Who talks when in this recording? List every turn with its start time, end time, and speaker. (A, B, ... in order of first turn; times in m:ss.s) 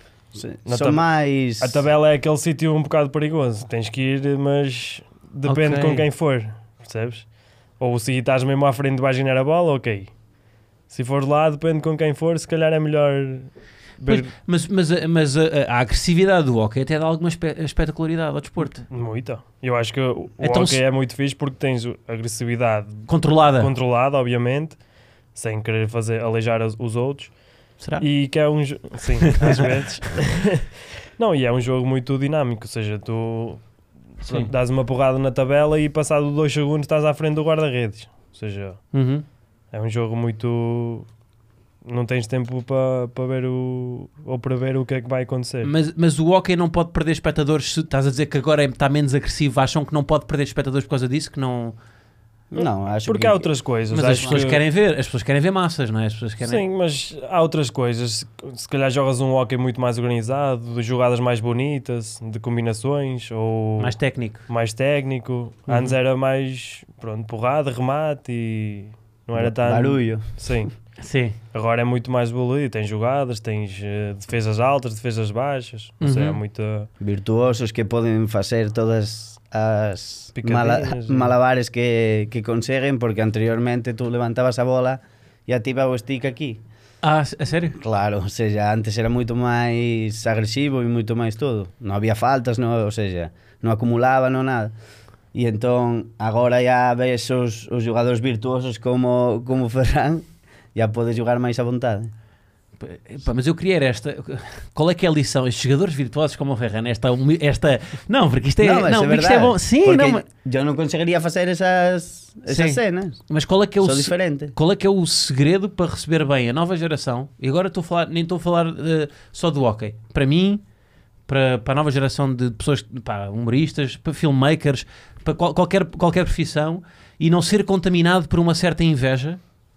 0:00.3-0:01.8 A
0:00.7-0:01.0 B
0:01.6-0:07.2 B
0:05.4-0:06.0 C
0:07.8-0:10.1 B
0:10.9-0:14.3 B
0:14.1-0:18.8 C
0:18.9-0:24.8 B
0:20.4-0:20.8 C
0:23.1-0:23.7 C
0:25.3-0:27.3 B
0:27.8-0:28.0 C
0:28.0-0:33.6 B
0:29.2-0:29.7 C
0:34.2-0:38.8 B
0:38.9-0:39.2 C
0:39.7-0:41.1 B
0:41.8-0:45.7 B
0:45.6-0:51.8 C
0:52.5-0:53.5 A
0:52.6-0:54.6 B
0:53.9-0:56.6 C
0:56.4-1:03.9 B
1:03.8-1:04.4 C
1:04.5-1:10.7 B
1:05.7-1:06.0 C
1:09.3-1:10.6 A
1:11.0-1:11.4 C
1:11.5-1:16.9 B
1:16.0-1:16.4 C
1:17.0-1:26.6 A
1:20.3-1:21.3 B
1:27.0-1:27.8 C
1:27.8-1:34.7 A
1:35.3-1:42.1 A
1:42.8-1:50.2 C
1:48.6-1:53.2 A
1:52.5-2:00.6 C
1:53.8-1:54.5 A
2:01.3-2:09.4 C